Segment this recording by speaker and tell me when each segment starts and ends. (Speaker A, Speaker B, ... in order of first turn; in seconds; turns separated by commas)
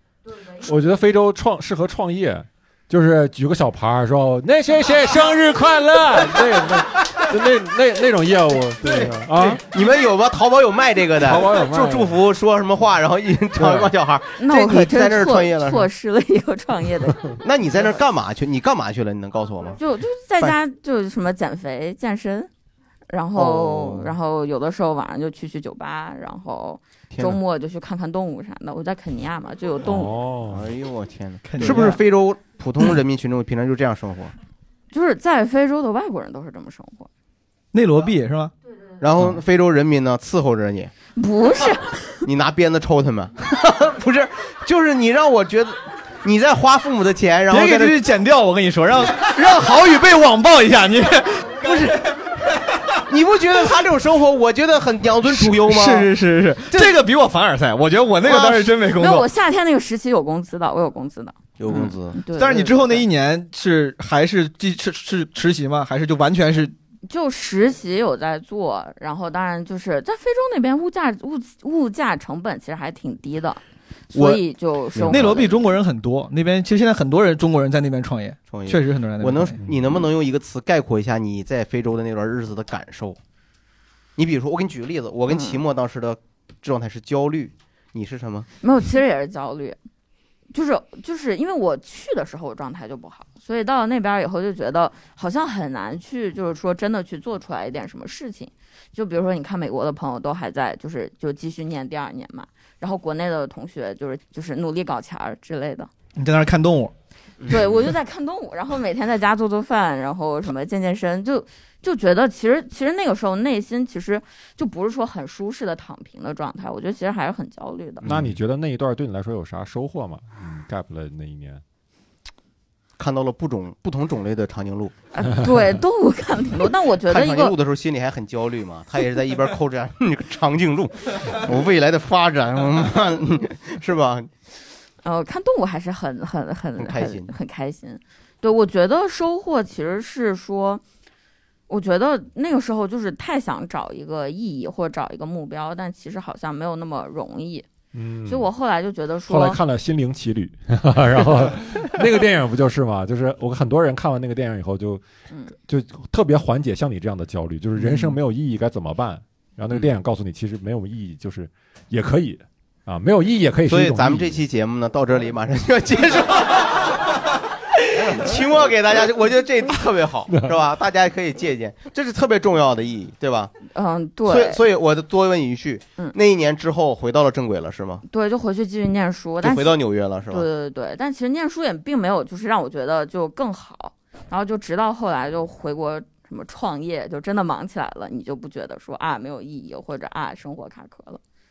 Speaker A: 0.6-9.6, Speaker B: 8.8-15.9, Speaker A: 11.2-12.2, Speaker A: 13.6-13.9, Speaker C: 14.4-17.4, Speaker B: 17.4-19.8, Speaker C: 19.8-22.5, Speaker C: 23.1-30.1, Speaker B: 23.3-24.1, Speaker B: 27.1-27.4, Speaker A: 29.8-30.7, Speaker B: 30.5-34.3, Speaker D: 31.4-32.0, Speaker C: 34.9-37.1, Speaker D: 37.7-38.5, Speaker B: 39.0-40.9, Speaker C: 41.1-42.2, Speaker B: 42.2-48.0, Speaker D: 47.5-52.0, Speaker B: 51.6-51.9, Speaker B: 53.1-56.1, Speaker D: 55.2-59.3, Speaker B: 56.7-57.0, Speaker C: 58.2-63.0, Speaker B: 61.6-62.2, Speaker D: 62.3-66.7, Speaker C: 67.1-75.6, Speaker B: 74.9-75.5, Speaker D: 75.1-79.6, Speaker B: 78.5-83.2, Speaker B: 84.2-88.5, Speaker C: 85.3-85.6, Speaker C: 88.6-89.8, Speaker C: 90.5-105.9, Speaker D: 106.2-106.9, Speaker B: 107.4-107.9, Speaker C: 107.5-118.0, Speaker B: 118.0-118.4, Speaker A: 118.0-121.6, Speaker B: 123.0-124.9, Speaker C: 125.1-127.5, Speaker B: 127.0-134.3, Speaker C: 135.0-140.8, Speaker B: 136.8-137.3, Speaker C: 141.7-147.7, Speaker A: 147.9-148.5, Speaker C: 148.3-149.6, Speaker A: 149.2-155.0, Speaker A: 155.6-164.4, Speaker B: 163.7-167.0, Speaker B: 167.7-173.5, Speaker A: 170.3-170.5, Speaker C: 173.7-174.6, Speaker B: 174.2-178.0, Speaker C: 178.1-179.8, Speaker B: 179.4-180.5, Speaker C: 180.3-191.2